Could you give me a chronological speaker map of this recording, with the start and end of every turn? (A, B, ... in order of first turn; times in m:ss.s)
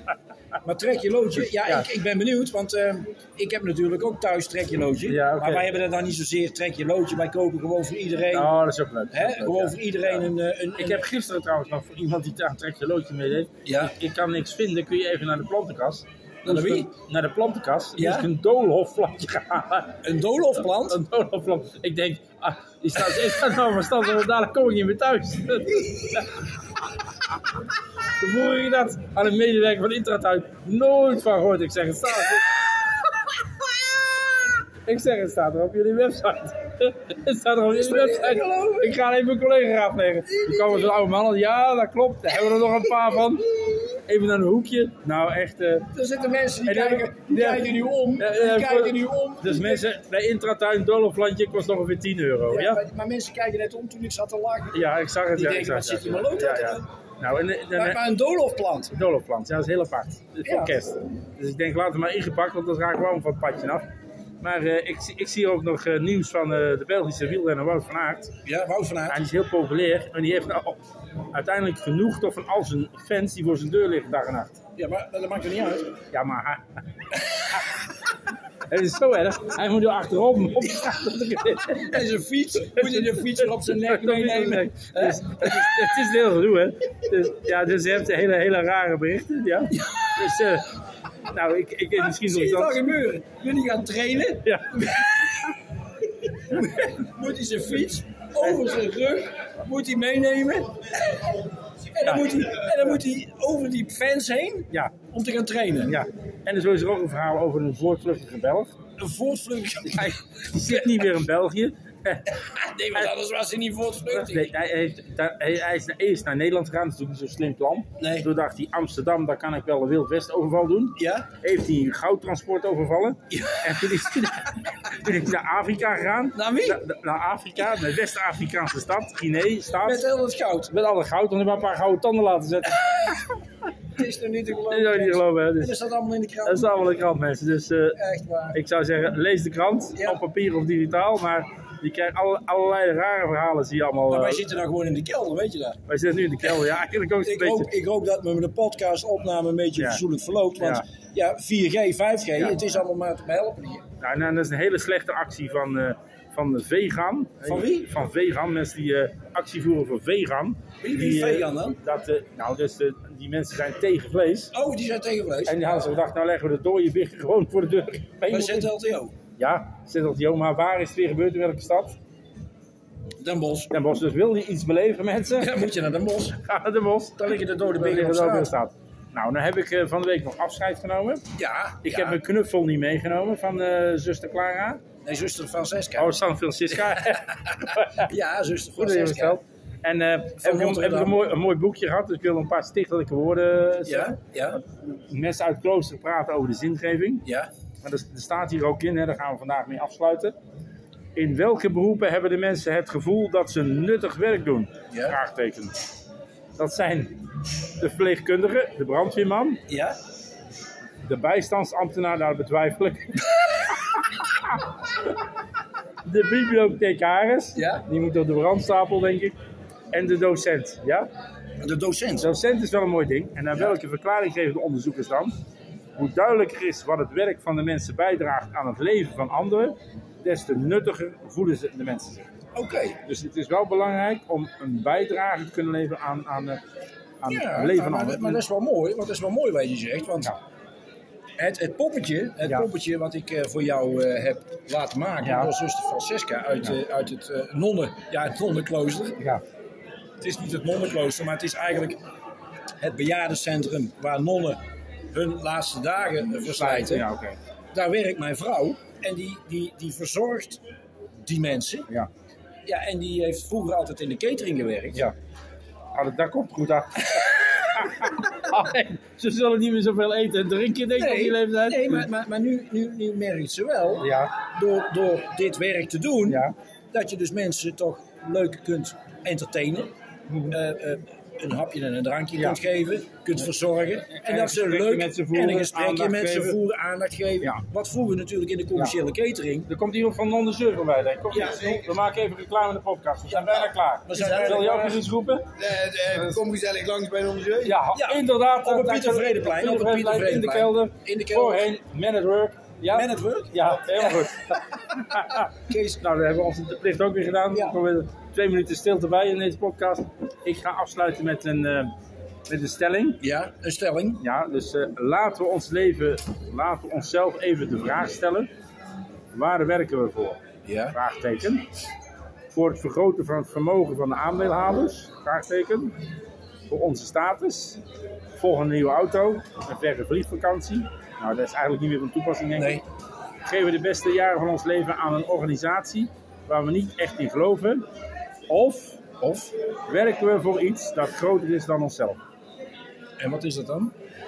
0:00.6-0:08.5 A
0:01.5-0:01.9 B
0:05.1-0:05.7 B
0:08.3-0:20.0 B
0:09.1-0:11.1 A
0:13.6-0:13.9 A
0:16.4-0:16.9 A
0:18.0-0:18.3 A
0:20.0-0:21.0 A
0:20.6-0:26.4 B
0:28.2-0:32.6 B
0:34.8-0:45.9 B
0:37.7-0:39.0 A
0:40.3-0:40.9 A
0:45.9-0:49.8 A
0:46.6-0:47.6 B
0:48.2-0:52.8 B
0:52.5-0:54.8 A
0:54.7-0:58.0 B
0:55.3-0:56.8 A
0:57.8-0:58.9 A
0:58.9-1:03.8 B
1:00.4-1:00.8 A
1:04.4-1:08.3 B
1:08.4-1:09.2 A
1:09.1-1:10.8 B
1:11.3-1:14.6 B
1:14.8-1:16.0 A
1:16.1-1:16.6 B
1:18.7-1:22.0 B
1:21.8-1:25.9 A
1:22.6-1:30.7 B
1:29.7-1:30.2 A
1:31.3-1:33.0 B
1:32.0-1:35.6 A
1:34.4-1:35.0 B
1:36.3-1:41.3 A
1:41.9-1:46.0 A
1:42.0-1:42.4 B
1:44.7-1:45.0 B
1:45.8-1:48.8 B
1:49.0-1:51.0 A
1:49.9-1:53.1 B
1:52.4-1:54.5 A
1:54.1-2:10.1 B
1:58.0-1:58.3 A
2:01.0-2:01.3 A
2:03.3-2:04.0 A
2:06.4-2:06.8 A
2:09.8-2:10.7 A
2:10.7-2:13.4 B
2:14.0-2:16.8 A
2:14.7-2:15.8 B
2:16.5-2:18.0 B
2:18.0-2:18.6 A
2:18.5-2:24.4 B
2:20.0-2:20.2 A
2:24.1-2:25.8 A
2:25.9-2:27.7 B
2:26.4-2:33.8 A
2:29.8-2:30.0 B
2:30.6-2:30.8 B
2:34.0-2:44.5 B
2:37.4-2:37.9 A
2:40.8-2:41.8 A
2:44.5-2:45.8 A
2:45.5-2:48.7 B
2:48.3-2:49.1 A
2:49.4-2:52.0 B
2:53.2-2:53.7 A
2:53.7-2:55.5 B
2:55.4-2:56.4 A
2:56.4-3:01.2 B
2:57.2-2:58.5 A
3:01.4-3:02.2 A
3:01.8-3:04.8 B
3:05.0-3:06.1 A
3:06.0-3:08.1 B
3:06.7-3:09.4 A
3:08.8-3:17.2 B
3:10.4-3:11.2 A
3:13.9-3:14.6 A
3:17.8-3:20.4 B
3:21.2-3:25.7 B
3:24.9-3:25.2 A
3:26.6-3:29.6 B
3:29.7-3:30.0 A
3:31.0-3:34.7 B
3:36.0-3:39.4 B
3:37.6-3:37.8 A
3:39.9-3:41.1 B
3:41.6-3:42.3 A
3:42.2-3:45.3 B
3:46.0-3:52.3 B
3:52.6-3:53.0 A
3:53.0-3:56.6 B
3:57.2-3:58.4 B
3:57.3-4:00.3 A
4:01.4-4:09.2 A
4:05.2-4:05.5 B
4:10.2-4:12.0 A
4:12.8-4:14.6 A
4:15.1-4:17.1 A
4:16.4-4:17.4 B
4:17.7-4:20.6 A
4:21.2-4:21.9 A
4:22.7-4:25.1 A
4:25.9-4:32.1 B
4:31.0-4:39.9 A
4:34.0-4:34.4 B
4:36.3-4:36.5 B
4:40.3-4:40.6 B
4:40.5-4:49.7 A
4:44.1-4:46.6 B
4:49.7-4:55.5 B
4:51.4-4:51.6 A
4:51.5-4:51.8 C
4:53.3-4:55.0 A
4:55.6-4:57.8 C
4:56.3-4:56.6 A
4:57.6-5:11.9 B
4:57.9-5:01.7 A
5:02.9-5:04.3 A
5:05.1-5:06.0 A
5:12.5-5:13.2 B
5:13.2-5:14.2 A
5:14.2-5:18.5 B
5:19.3-5:20.4 B
5:20.7-5:21.0 A
5:20.9-5:21.6 B
5:22.5-5:26.0 B
5:26.7-5:27.8 B
5:28.4-5:32.8 B
5:32.6-5:32.8 A
5:33.4-5:37.9 B
5:38.5-5:39.0 B
5:39.2-5:39.5 A
5:39.9-5:42.2 B
5:43.2-5:43.9 A